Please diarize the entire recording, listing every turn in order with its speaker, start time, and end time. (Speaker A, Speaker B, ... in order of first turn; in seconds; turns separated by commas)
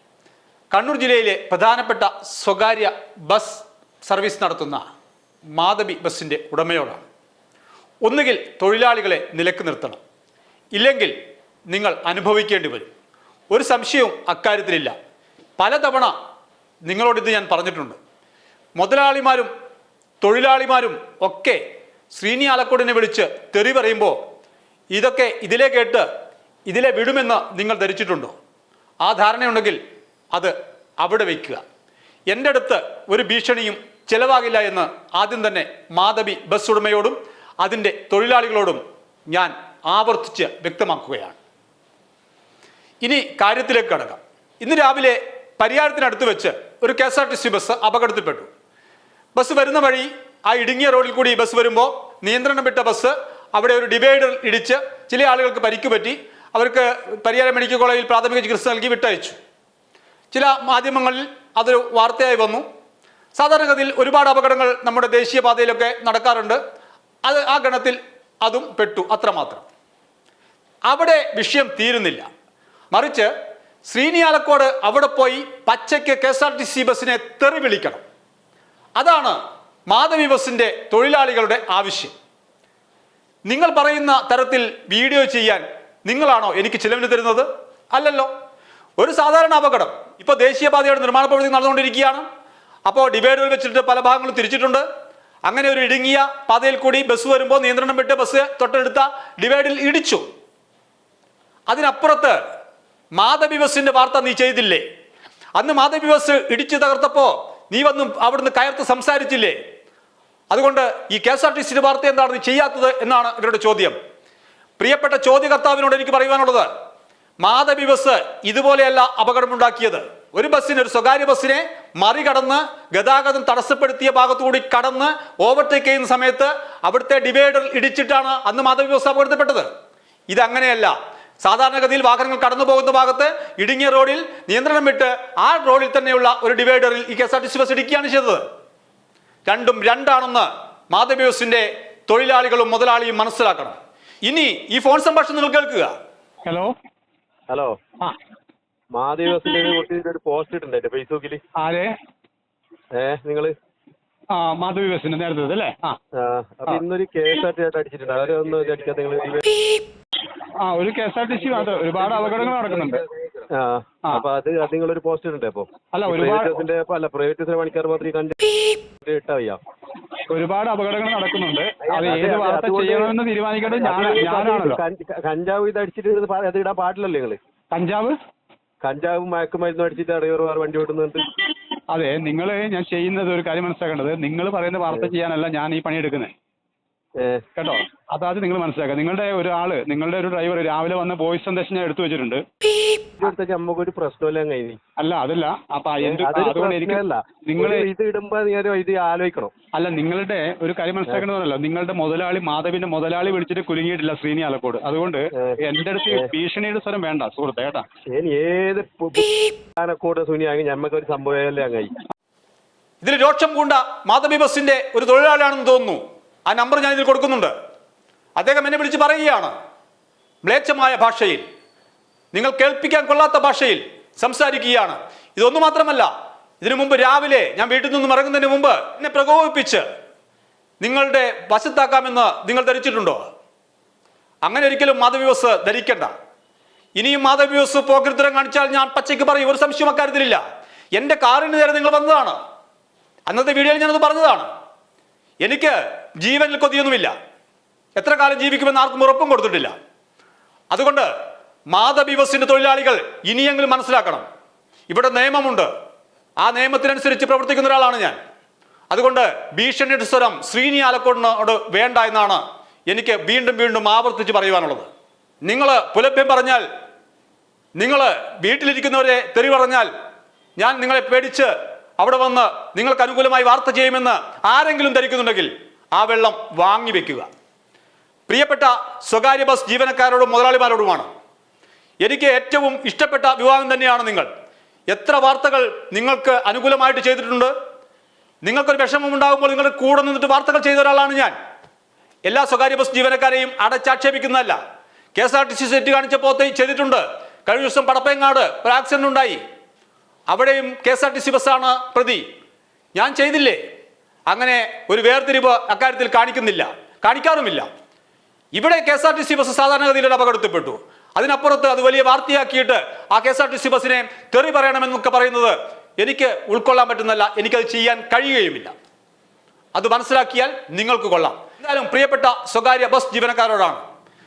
Speaker A: 0.7-4.8, Speaker A: 5.5-7.0, Speaker A: 8.0-10.0, Speaker A: 10.7-11.1, Speaker A: 11.7-12.9, Speaker A: 13.5-14.9, Speaker A: 15.6-16.1, Speaker A: 16.9-18.0, Speaker A: 18.8-19.5, Speaker A: 20.2-21.6, Speaker A: 22.1-24.2, Speaker A: 24.9-26.1, Speaker A: 26.7-28.3, Speaker A: 29.0-29.8, Speaker A: 30.3-31.6, Speaker A: 32.3-41.4, Speaker A: 43.0-48.5, Speaker A: 49.3-59.4, Speaker A: 60.3-62.6, Speaker A: 63.3-66.6, Speaker A: 67.2-69.6, Speaker A: 70.9-72.3, Speaker A: 72.9-73.3, Speaker A: 73.9-78.0, Speaker A: 79.0-79.4, Speaker A: 79.9-82.1, Speaker A: 83.5-88.3, Speaker A: 89.0-92.2, Speaker A: 92.9-94.8, Speaker A: 95.5-100.2, Speaker A: 101.7-102.4, Speaker A: 103.2-104.8, Speaker A: 105.6-109.6, Speaker A: 110.5-114.0, Speaker A: 114.8-116.7, Speaker A: 117.4-129.7, Speaker A: 130.3-138.4, Speaker A: 139.4-145.9, Speaker B: 146.4-146.7, Speaker C: 147.5-147.8, Speaker C: 148.9-151.4, Speaker B: 151.6-151.9, Speaker C: 152.9-153.5, Speaker B: 154.3-156.0, Speaker C: 156.1-159.5, Speaker B: 160.6-163.0, Speaker C: 163.5-168.5, Speaker B: 165.9-166.6, Speaker C: 169.0-169.6, Speaker B: 170.3-174.8, Speaker C: 171.8-173.1, Speaker C: 173.8-177.4, Speaker B: 177.7-178.2, Speaker C: 178.8-181.3, Speaker B: 181.9-186.3, Speaker C: 187.2-187.4, Speaker B: 187.6-192.4, Speaker C: 193.2-194.8, Speaker B: 195.0-197.9, Speaker C: 196.0-199.5, Speaker B: 199.7-207.8, Speaker C: 205.3-205.6, Speaker C: 208.1-211.9, Speaker A: 213.0-217.5, Speaker A: 218.4-219.5, Speaker A: 220.4-221.4, Speaker A: 222.3-226.1, Speaker A: 226.6-229.8, Speaker A: 230.8-233.2, Speaker A: 234.4-236.1, Speaker A: 237.0-240.4, Speaker A: 240.9-242.4, Speaker A: 243.3-244.5, Speaker A: 245.4-247.1, Speaker A: 248.0-249.7, Speaker A: 250.7-251.1, Speaker A: 251.7-254.2, Speaker A: 254.9-255.7, Speaker A: 256.4-258.2, Speaker A: 258.9-264.9, Speaker A: 265.4-266.6, Speaker A: 267.8-269.9, Speaker A: 270.6-277.3, Speaker A: 278.3-281.1, Speaker A: 282.0-284.3, Speaker A: 284.9-287.5, Speaker A: 288.4-291.3, Speaker A: 292.3-294.6, Speaker A: 295.1-299.4, Speaker A: 300.3-302.2, Speaker A: 302.9-303.6, Speaker A: 304.3-307.7, Speaker A: 308.5-318.7, Speaker A: 319.7-323.8